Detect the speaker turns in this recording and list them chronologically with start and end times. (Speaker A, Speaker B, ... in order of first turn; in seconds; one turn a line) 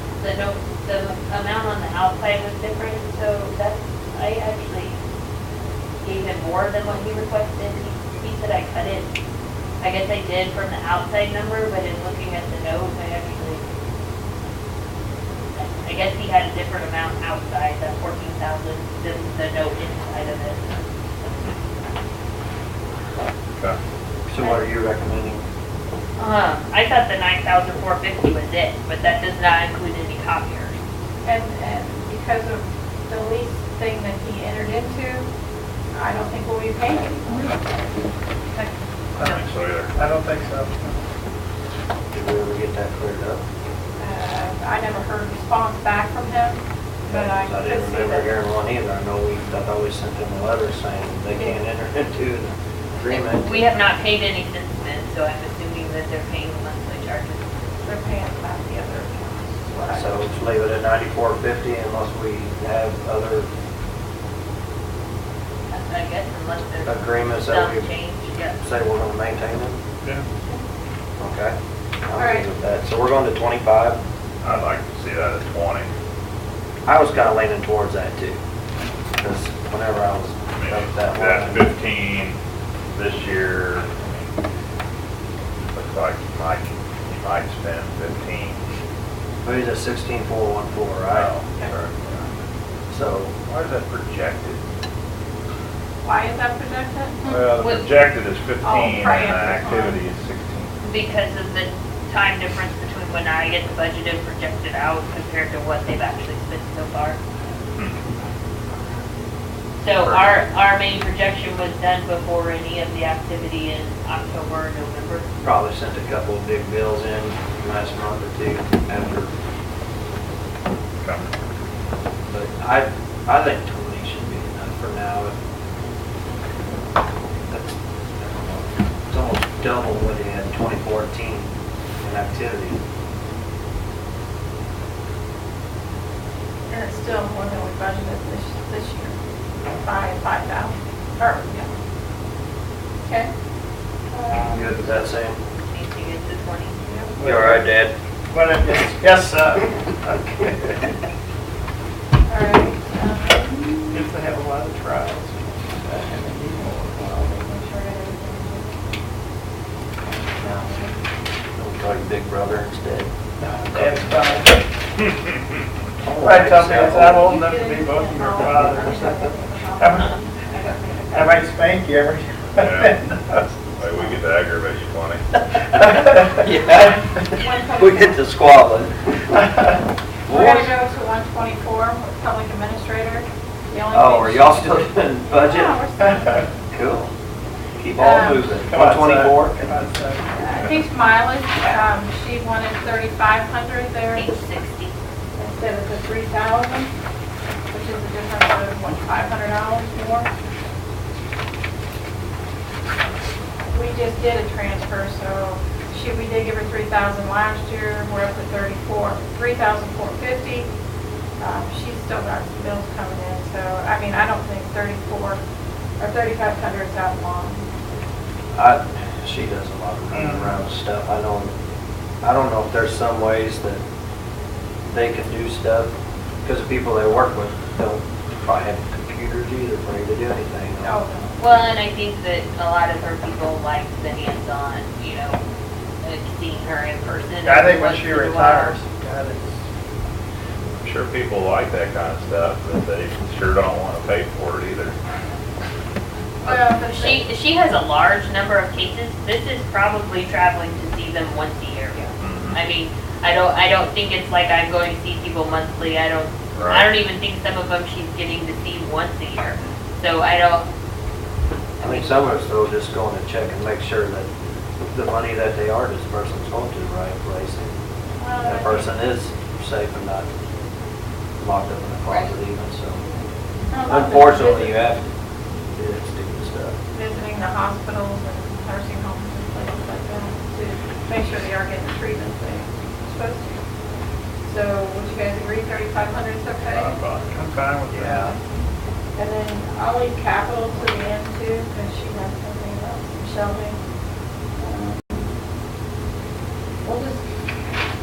Speaker A: 0.2-5.0
Speaker A: 6.0-9.1
Speaker A: 9.8-13.6
Speaker A: 15.5-20.8
Speaker B: 24.3-25.4
Speaker A: 26.2-30.8
Speaker C: 31.2-35.3
Speaker C: 35.9-37.5
Speaker A: 38.5-39.5
Speaker D: 39.1-39.9
Speaker E: 39.2-41.0
Speaker B: 42.1-43.4
Speaker C: 44.0-48.3
Speaker B: 47.1-53.6
Speaker A: 53.0-57.4
Speaker C: 57.8-60.3
Speaker B: 59.9-63.5
Speaker A: 65.7-68.6
Speaker B: 66.8-67.9
Speaker B: 68.6-69.8
Speaker B: 71.2-71.5
Speaker B: 72.1-74.0
Speaker C: 72.1-72.5
Speaker D: 74.4-75.9
Speaker B: 76.8-78.4
Speaker B: 79.2-81.7
Speaker D: 80.5-82.4
Speaker D: 82.9-83.9
Speaker D: 85.7-88.6
Speaker B: 89.4-91.3
Speaker D: 91.1-92.3
Speaker B: 92.9-93.3
Speaker D: 93.4-94.6
Speaker C: 96.0-97.5
Speaker D: 97.2-100.8
Speaker A: 97.6-97.9
Speaker C: 98.6-100.0
Speaker A: 100.8-107.2
Speaker A: 109.8-115.3
Speaker D: 110.0-110.4
Speaker B: 115.4-119.3
Speaker B: 122.3-125.3
Speaker B: 127.5-131.5
Speaker B: 132.0-132.8
Speaker C: 136.7-139.2
Speaker C: 139.7-141.7
Speaker C: 143.0-143.3
Speaker C: 144.1-144.8
Speaker B: 144.4-145.4
Speaker A: 145.6-146.8
Speaker C: 146.8-147.2
Speaker E: 147.2-147.7
Speaker B: 147.2-147.9
Speaker E: 148.3-150.9
Speaker C: 152.3-154.1
Speaker E: 153.9-156.9
Speaker C: 156.9-159.0
Speaker C: 160.1-161.0
Speaker B: 161.6-163.1
Speaker E: 163.4-164.6
Speaker B: 163.7-164.0
Speaker B: 166.0-167.3
Speaker E: 166.2-170.2
Speaker C: 167.0-171.4
Speaker E: 171.1-173.4
Speaker D: 172.6-175.4
Speaker B: 175.7-179.0
Speaker C: 177.3-178.2
Speaker B: 180.3-180.7
Speaker C: 180.3-186.5
Speaker B: 183.9-185.8
Speaker B: 186.7-187.1
Speaker B: 187.8-189.6
Speaker C: 188.0-188.6
Speaker E: 188.6-190.7
Speaker C: 190.3-194.4
Speaker A: 194.1-194.9
Speaker C: 195.4-196.9
Speaker C: 197.7-200.3
Speaker C: 203.7-210.7
Speaker C: 211.4-215.4
Speaker C: 216.0-217.7
Speaker B: 218.5-221.5
Speaker E: 220.1-220.6
Speaker B: 222.2-223.8
Speaker B: 224.9-225.9
Speaker B: 226.4-231.0
Speaker C: 230.8-231.4
Speaker A: 231.4-235.4
Speaker A: 236.0-238.8
Speaker E: 237.4-239.6
Speaker D: 240.8-244.9
Speaker C: 246.4-247.2
Speaker A: 246.5-260.7
Speaker D: 252.2-252.6
Speaker D: 256.5-256.9
Speaker A: 261.8-262.1
Speaker B: 261.8-264.3
Speaker B: 264.9-267.7
Speaker C: 268.2-268.9
Speaker B: 268.4-270.3
Speaker B: 271.4-273.0
Speaker C: 273.7-274.9
Speaker B: 273.9-275.1
Speaker B: 275.7-276.7
Speaker C: 276.9-283.6
Speaker C: 284.4-287.0
Speaker D: 286.6-287.5
Speaker E: 287.3-288.3
Speaker B: 288.0-288.3
Speaker C: 289.1-293.8
Speaker C: 294.6-295.3
Speaker C: 296.8-297.2